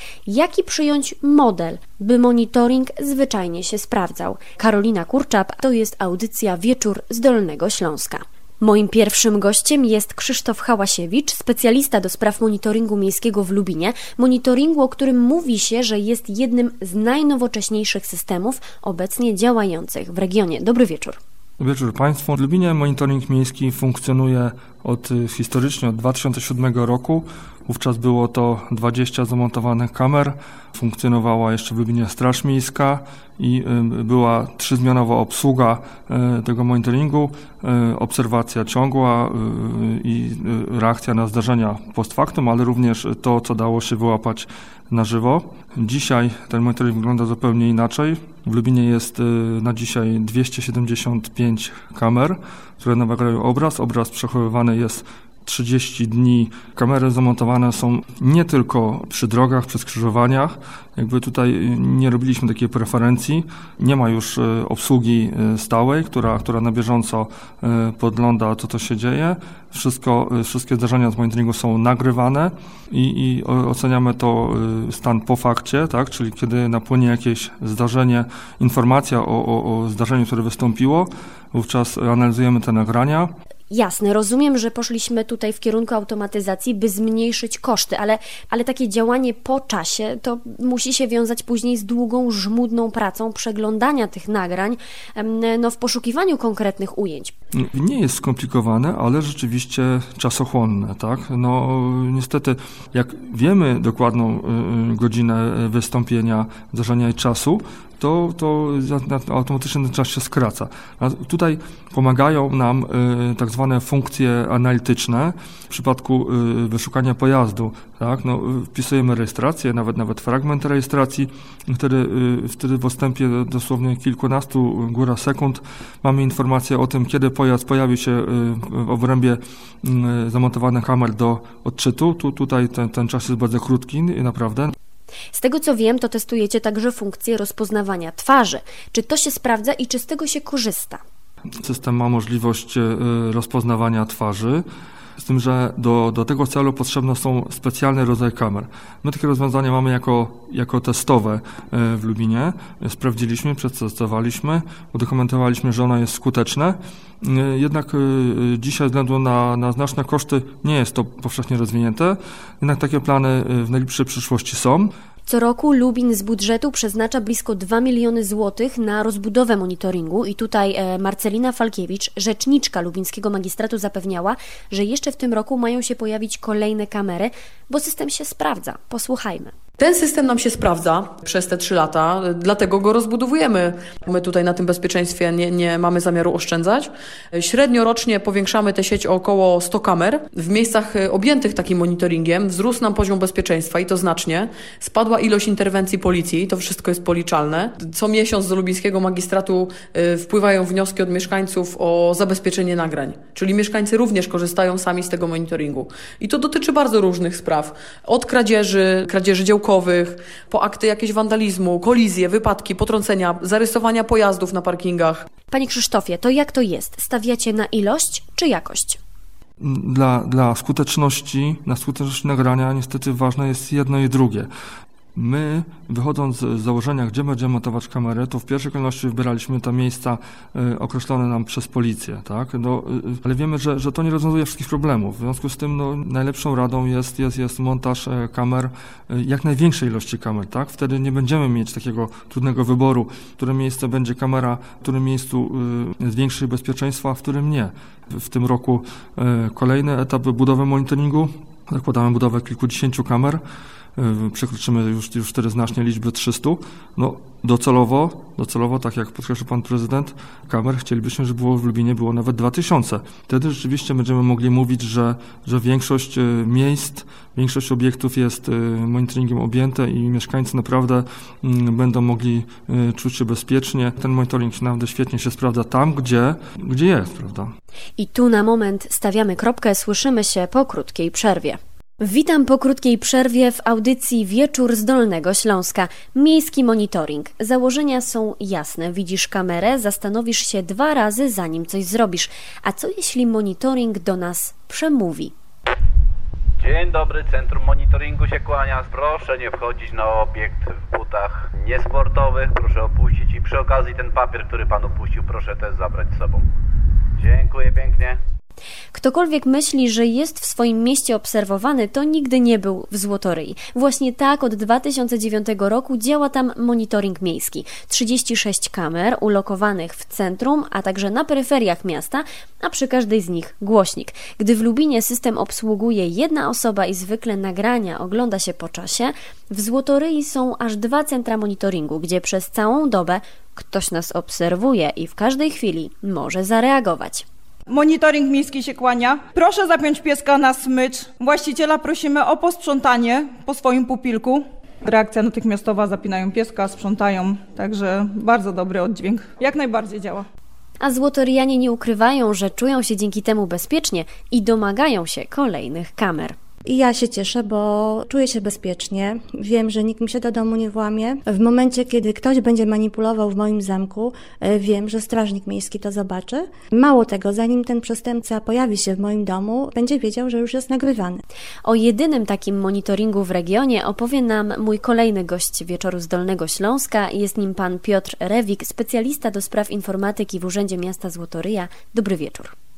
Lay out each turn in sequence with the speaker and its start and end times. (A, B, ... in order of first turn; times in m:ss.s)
0:00.3-0:21.2 A
0:21.6-1:23.3 B
1:23.7-1:37.3 A
1:37.5-2:14.7 B
2:15.3-2:21.0 A
2:21.6-2:24.6 B
2:25.2-2:44.9 B
2:45.3-2:59.5 A
2:59.8-3:35.2 C
3:35.5-3:39.0 A
3:39.6-3:44.5 B
3:45.1-4:13.4 B
4:14.0-4:37.5 B
4:38.0-4:55.3 A
4:56.6-5:06.4 D
5:07.2-5:08.2 D
5:08.9-5:37.2 A
5:37.7-5:50.2 E
5:50.8-5:56.4 A
5:56.6-6:11.2 F
6:11.6-6:22.5 A